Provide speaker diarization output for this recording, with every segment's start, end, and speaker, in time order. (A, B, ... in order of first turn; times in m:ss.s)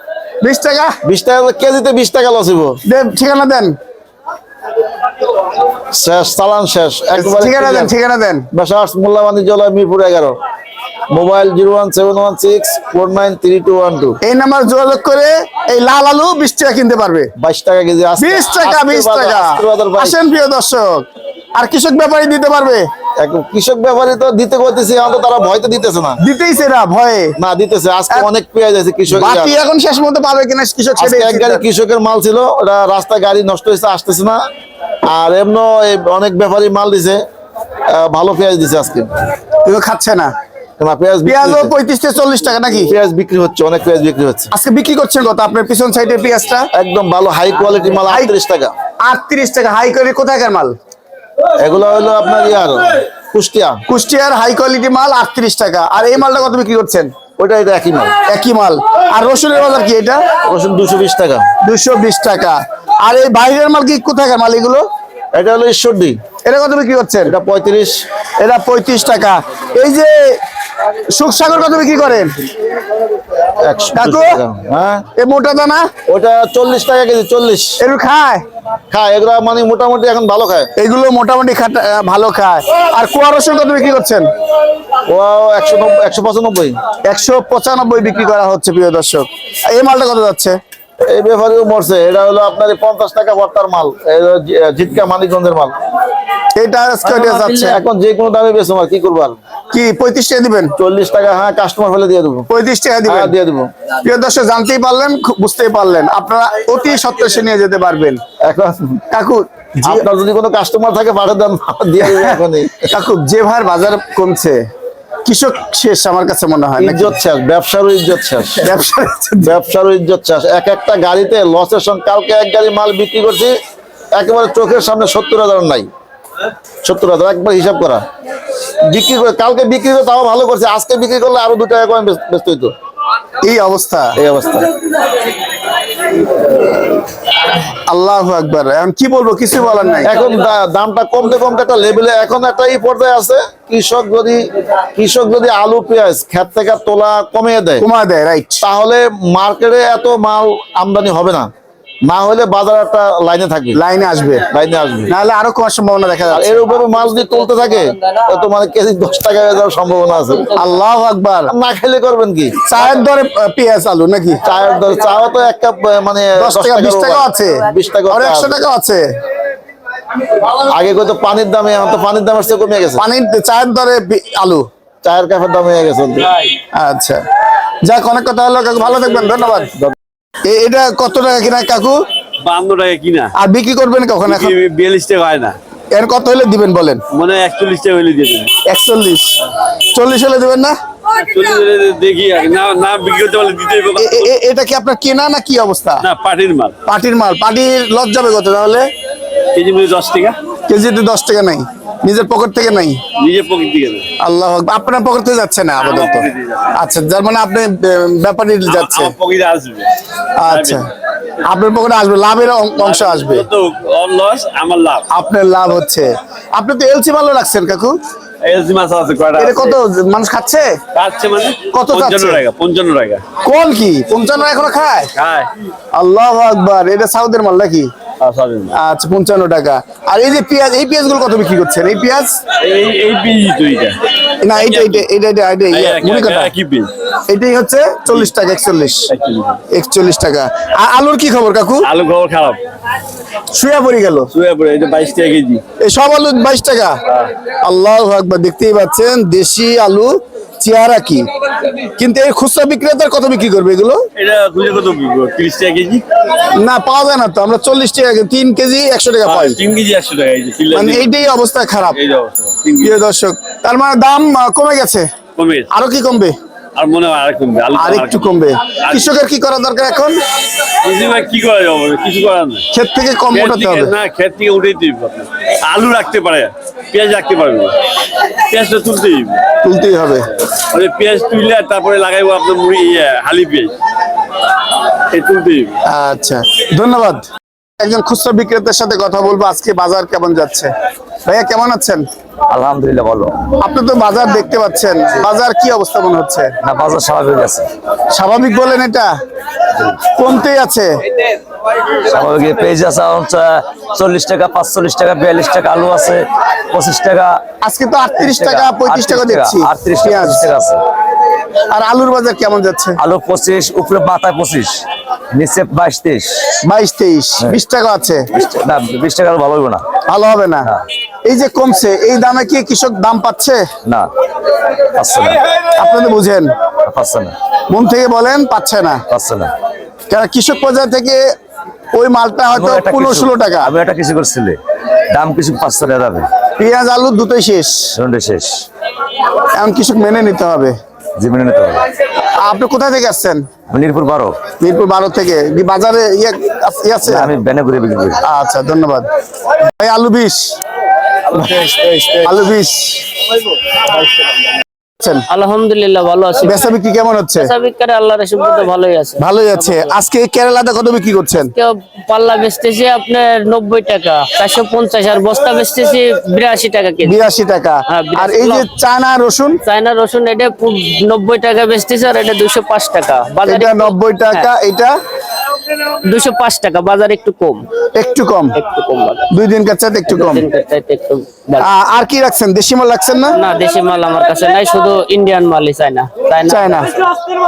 0:00.4-0:01.0 A
0:01.0-0:02.8 B
0:02.8-0:03.8 A
0:05.9-0:07.9 B
0:07.2-0:08.5 A
0:08.5-0:10.4 B
0:11.1-0:14.2 B
0:14.2-0:17.3 A
0:17.4-0:20.2 B
0:18.2-0:22.8 A
0:23.2-0:26.2 B
0:26.2-0:27.3 A
0:27.4-0:29.5 B
0:29.1-0:31.6 A
0:31.0-0:34.4 B
0:35.0-0:37.2 B
0:37.9-0:39.1 B
0:39.6-0:40.3 A
0:40.8-0:41.7 B
0:41.2-0:42.9 A
0:42.9-0:44.5 B
0:44.5-0:46.7 A
0:46.7-0:48.7 B
0:49.0-0:50.7 A
0:51.6-0:53.8 B
0:53.9-0:57.1 A
0:57.4-0:58.2 B
0:58.3-1:00.2 A
1:00.5-1:01.4 B
1:01.6-1:04.8 A
1:05.3-1:06.2 B
1:06.4-1:07.3 A
1:07.2-1:08.0 B
1:08.4-1:10.4 A
1:11.1-1:12.3 A
1:13.6-1:15.1 B
1:13.9-1:14.4 A
1:15.2-1:15.9 A
1:16.1-1:17.8 B
1:17.8-1:18.4 A
1:18.9-1:20.7 B
1:20.8-1:24.3 A
1:25.1-1:26.8 B
1:27.0-1:30.6 A
1:31.1-1:35.8 B
1:36.5-1:37.8 A
1:37.0-1:39.4 B
1:39.7-1:40.7 A
1:40.8-1:42.5 B
1:42.5-1:43.3 A
1:43.1-1:43.7 B
1:44.0-1:48.2 A
1:48.4-1:49.0 B
1:49.1-1:50.0 A
1:49.8-1:52.8 B
1:52.9-1:54.6 A
1:55.2-1:57.2 A
1:56.8-1:58.7 B
1:58.6-1:59.6 A
1:59.4-2:03.5 B
2:04.1-2:05.9 B
2:06.8-2:08.0 B
2:08.8-2:12.7 B
2:13.4-2:14.2 A
2:14.2-2:14.7 B
2:17.9-2:20.1 A
2:20.0-2:27.8 B
2:27.8-2:28.6 A
2:28.6-2:31.5 B
2:32.0-2:33.8 B
2:33.7-2:34.4 A
2:34.5-2:35.1 B
2:35.1-2:36.7 A
2:36.3-2:40.5 B
2:40.5-2:41.5 A
2:41.5-2:42.6 B
2:42.6-2:44.4 A
2:44.4-2:48.6 B
2:46.4-2:49.0 A
2:50.5-2:53.0 B
2:53.0-2:54.6 A
2:55.0-2:56.3 B
2:56.7-2:57.2 A
2:57.8-2:59.7 A
3:00.4-3:02.0 A
3:02.4-3:03.3 C
3:03.4-3:04.5 A
3:04.2-3:05.6 C
3:05.9-3:07.0 A
3:07.1-3:08.5 C
3:08.6-3:09.4 A
3:09.9-3:10.7 A
3:11.1-3:14.3 C
3:14.0-3:16.0 A
3:16.0-3:16.8 C
3:16.8-3:18.9 A
3:19.5-3:20.4 C
3:20.7-3:23.0 A
3:23.2-3:24.1 C
3:24.2-3:29.1 A
3:25.8-3:26.8 C
3:28.7-3:29.9 C
3:30.4-3:30.9 A
3:30.5-3:30.8 C
3:31.4-3:33.4 A
3:32.8-3:35.0 C
3:35.1-3:38.0 A
3:38.4-3:39.8 C
3:39.4-3:40.7 A
3:40.9-3:43.2 C
3:41.7-3:42.4 A
3:43.4-3:45.1 A
3:45.1-3:45.5 C
3:45.9-3:47.9 A
3:48.2-3:48.8 C
3:48.7-3:52.4 A
3:52.6-3:54.0 C
3:54.4-3:56.5 A
3:54.5-3:55.0 C
3:55.7-3:56.9 C
3:57.3-3:59.1 A
3:59.1-3:59.6 C
3:59.7-4:01.9 A
4:01.8-4:02.6 C
4:03.5-4:04.3 A
4:04.3-4:05.6 C
4:05.8-4:07.0 A
4:07.6-4:11.3 A
4:11.9-4:14.0 A
4:14.2-4:16.0 C
4:16.5-4:19.6 A
4:19.2-4:21.3 C
4:20.7-4:22.0 A
4:21.8-4:23.0 C
4:22.8-4:25.1 A
4:25.4-4:25.7 C
4:25.7-4:26.3 A
4:26.8-4:28.3 C
4:27.8-4:30.2 A
4:28.8-4:29.1 C
4:30.8-4:32.6 C
4:32.7-4:33.9 A
4:33.3-4:37.8 C
4:38.5-4:39.4 C
4:39.6-4:40.3 A
4:40.6-4:43.7 C
4:45.1-4:45.8 C
4:45.9-4:47.2 A
4:47.8-4:50.7 A
4:51.2-4:52.0 A
4:52.5-4:53.4 D
4:53.6-4:56.5 A
4:56.6-4:57.7 D
4:58.1-4:59.1 A
5:00.2-5:01.0 A
5:02.0-5:07.4 D
5:07.6-5:10.5 A
5:08.2-5:10.8 D
5:11.7-5:13.0 A
5:13.0-5:16.5 D
5:16.6-5:18.2 A
5:18.3-5:19.8 D
5:20.1-5:20.7 A
5:21.2-5:23.6 A
5:24.9-5:25.4 D
5:25.7-5:26.5 A
5:26.8-5:27.3 D
5:27.7-5:29.0 A
5:29.1-5:29.5 D
5:30.1-5:31.3 A
5:31.9-5:33.7 A
5:32.5-5:34.6 D
5:35.1-5:36.3 D
5:36.6-5:37.9 A
5:37.9-5:38.6 D
5:39.6-5:40.8 A
5:41.2-5:41.8 D
5:42.4-5:43.4 A
5:43.7-5:44.4 D
5:44.6-5:47.3 A
5:47.0-5:48.2 D
5:48.2-5:49.0 A
5:49.8-5:50.5 A
5:52.2-5:53.2 A
5:55.0-5:55.2 A
5:55.3-5:56.6 E
5:56.4-5:57.5 A
5:57.4-6:00.0 E
5:59.2-6:01.5 A
6:01.6-6:07.2 E
6:07.0-6:09.6 A
6:07.9-6:08.7 E
6:09.6-6:14.5 E
6:13.4-6:14.9 A
6:16.0-6:17.6 E
6:17.9-6:18.6 A
6:18.5-6:19.3 E
6:19.3-6:20.4 A
6:20.1-6:21.7 E
6:21.6-6:23.4 A
6:23.3-6:26.9 E
6:26.5-6:26.9 A